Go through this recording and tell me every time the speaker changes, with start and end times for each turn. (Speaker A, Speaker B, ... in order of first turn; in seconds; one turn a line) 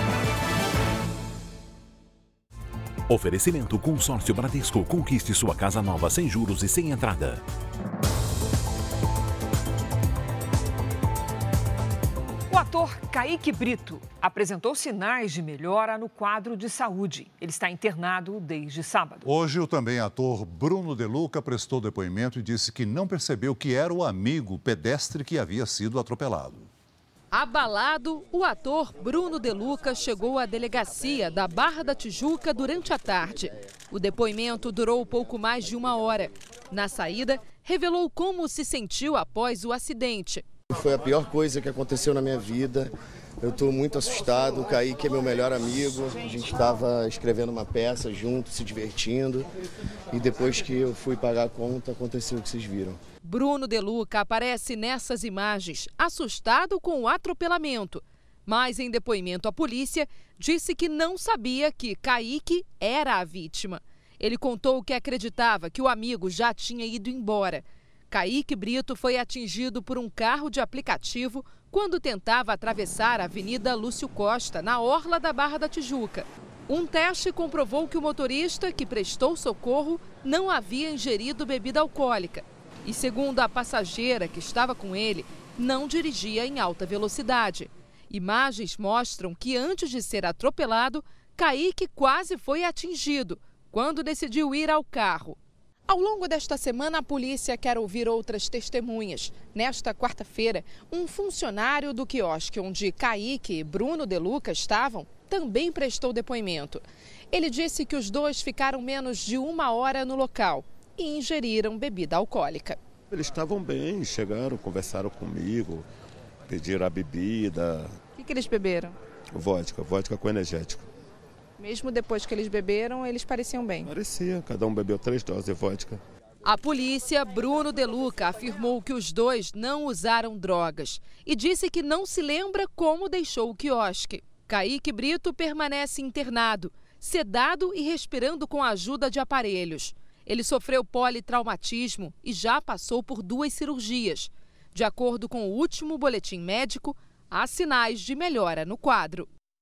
Speaker A: 3.1-7.4
Speaker B: 12.5-19.3
Speaker C: 19.2-26.7
Speaker D: 27.3-40.4
Speaker E: 40.7-49.5
Speaker E: 50.1-53.0
Speaker D: 53.2-112.8
Speaker F: 113.1-115.9
Speaker F: 116.5-118.0
Speaker D: 118.2-119.0
Speaker F: 119.3-120.9
Speaker D: 121.6-123.9
Speaker F: 123.8-126.0
Speaker D: 126.5-149.3